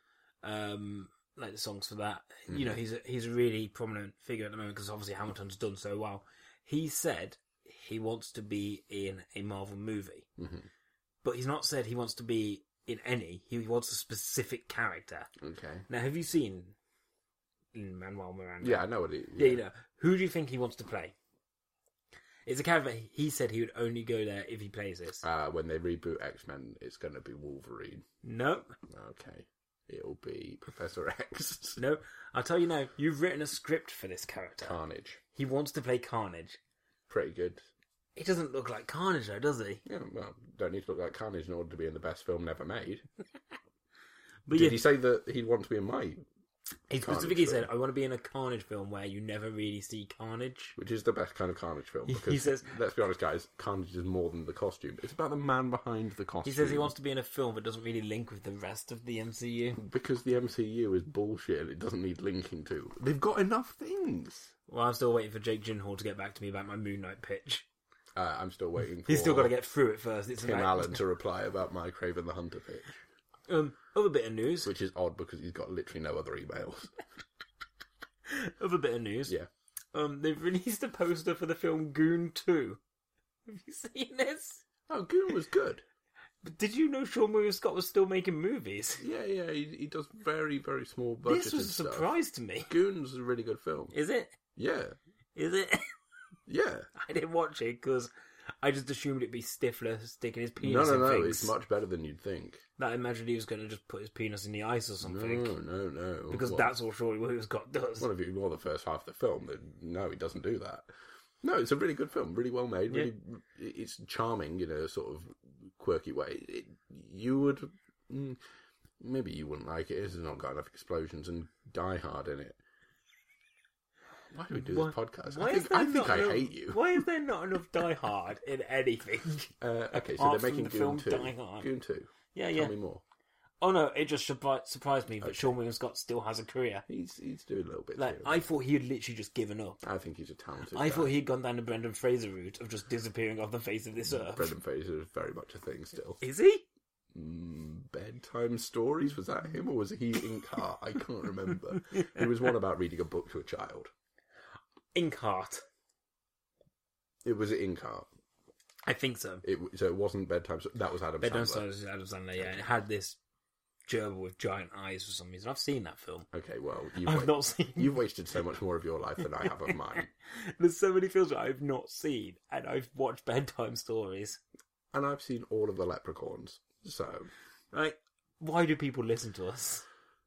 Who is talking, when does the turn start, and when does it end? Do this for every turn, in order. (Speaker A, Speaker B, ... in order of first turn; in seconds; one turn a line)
Speaker A: 0.4-10.3
Speaker B: 2.5-2.8
Speaker B: 10.4-10.7
Speaker A: 11.2-15.3
Speaker B: 15.4-15.8
Speaker A: 15.9-16.8
Speaker A: 17.7-21.1
Speaker B: 18.6-19.6
Speaker A: 22.4-25.2
Speaker B: 25.2-28.0
Speaker A: 28.2-28.7
Speaker B: 28.9-31.8
Speaker A: 31.8-34.8
Speaker B: 34.6-35.2
Speaker A: 35.3-36.6
Speaker B: 37.1-37.6
Speaker A: 38.1-39.8
Speaker B: 39.8-43.0
Speaker A: 44.5-44.8
Speaker B: 44.5-46.2
Speaker A: 46.9-50.7
Speaker B: 47.0-47.7
Speaker B: 50.8-56.9
Speaker A: 52.1-52.7
Speaker A: 56.4-59.8
Speaker B: 59.8-64.5
Speaker A: 64.7-67.7
Speaker B: 68.1-69.5
Speaker A: 69.0-71.0
Speaker B: 70.4-73.0
Speaker A: 73.5-74.7
Speaker B: 74.6-76.9
Speaker A: 78.2-79.3
Speaker A: 79.9-82.8
Speaker A: 83.5-84.6
Speaker B: 84.9-85.8
Speaker A: 86.4-89.0
Speaker B: 89.0-92.1
Speaker A: 91.2-92.7
Speaker B: 92.7-93.9
Speaker A: 93.9-94.4
Speaker B: 94.5-95.0
Speaker A: 95.3-95.9
Speaker B: 96.5-96.9
Speaker A: 96.9-98.1
Speaker A: 98.6-101.5
Speaker B: 100.6-102.6
Speaker A: 102.8-105.5
Speaker B: 105.0-106.7
Speaker A: 106.3-108.1
Speaker B: 108.0-110.9
Speaker B: 111.4-118.4
Speaker B: 119.0-122.6
Speaker B: 124.3-127.0
Speaker A: 124.5-131.7
Speaker B: 129.6-133.0
Speaker A: 132.3-132.7
Speaker A: 133.6-136.8
Speaker B: 135.2-135.5
Speaker B: 136.9-138.5
Speaker A: 138.0-139.8
Speaker B: 139.8-141.1
Speaker A: 140.7-144.5
Speaker B: 144.0-146.2
Speaker A: 146.2-146.6
Speaker B: 147.1-153.9
Speaker A: 154.9-155.6
Speaker B: 157.2-158.1
Speaker A: 158.8-159.4
Speaker B: 159.4-161.7
Speaker A: 161.2-163.2
Speaker B: 162.4-162.7
Speaker A: 163.9-166.3
Speaker B: 166.3-170.1
Speaker A: 167.0-168.0
Speaker A: 169.4-174.4
Speaker B: 174.9-177.3
Speaker A: 177.7-179.8